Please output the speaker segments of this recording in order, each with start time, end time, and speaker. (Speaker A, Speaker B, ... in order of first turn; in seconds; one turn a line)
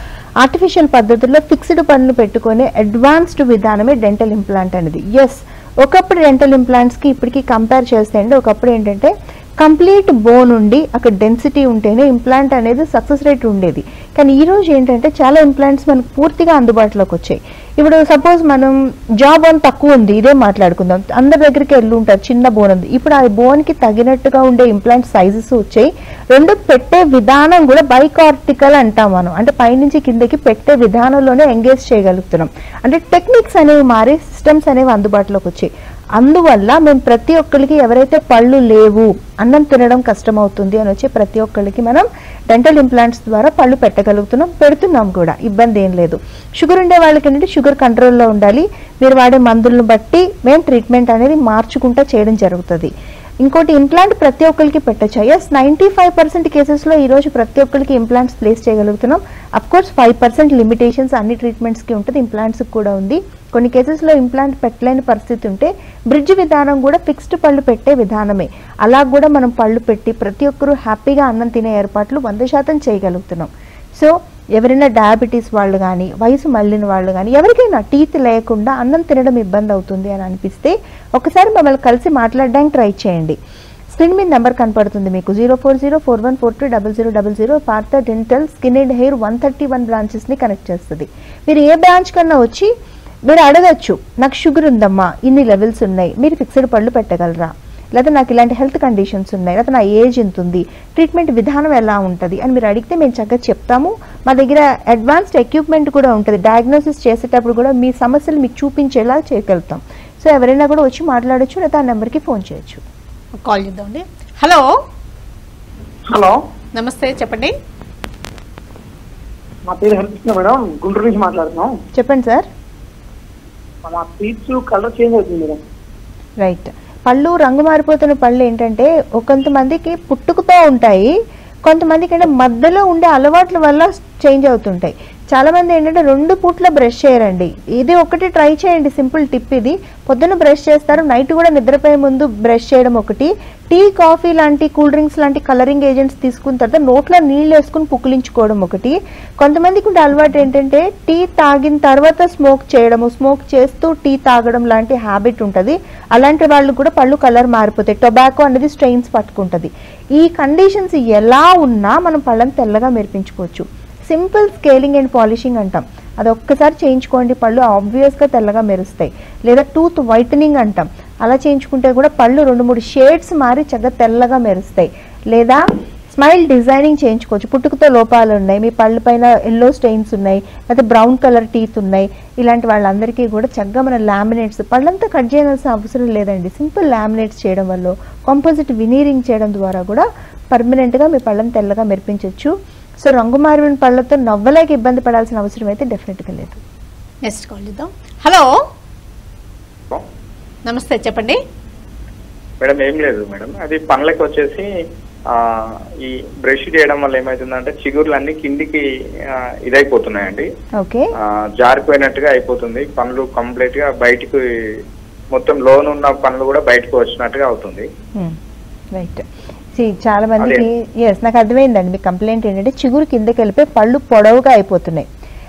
Speaker A: 0.4-83.4
Speaker A: 83.9-92.7
Speaker A: 93.3-112.8
Speaker B: 113.5-114.7
Speaker C: 116.1-116.4
Speaker B: 116.8-117.5
Speaker C: 119.7-121.7
Speaker A: 122.0-122.5
Speaker C: 123.8-125.6
Speaker A: 126.4-131.1
Speaker A: 131.7-196.6
Speaker B: 197.3-198.5
Speaker B: 200.7-201.4
Speaker D: 202.6-204.7
Speaker D: 205.3-210.5
Speaker A: 210.8-211.1
Speaker D: 211.6-214.4
Speaker D: 215.3-217.9
Speaker A: 218.9-225.1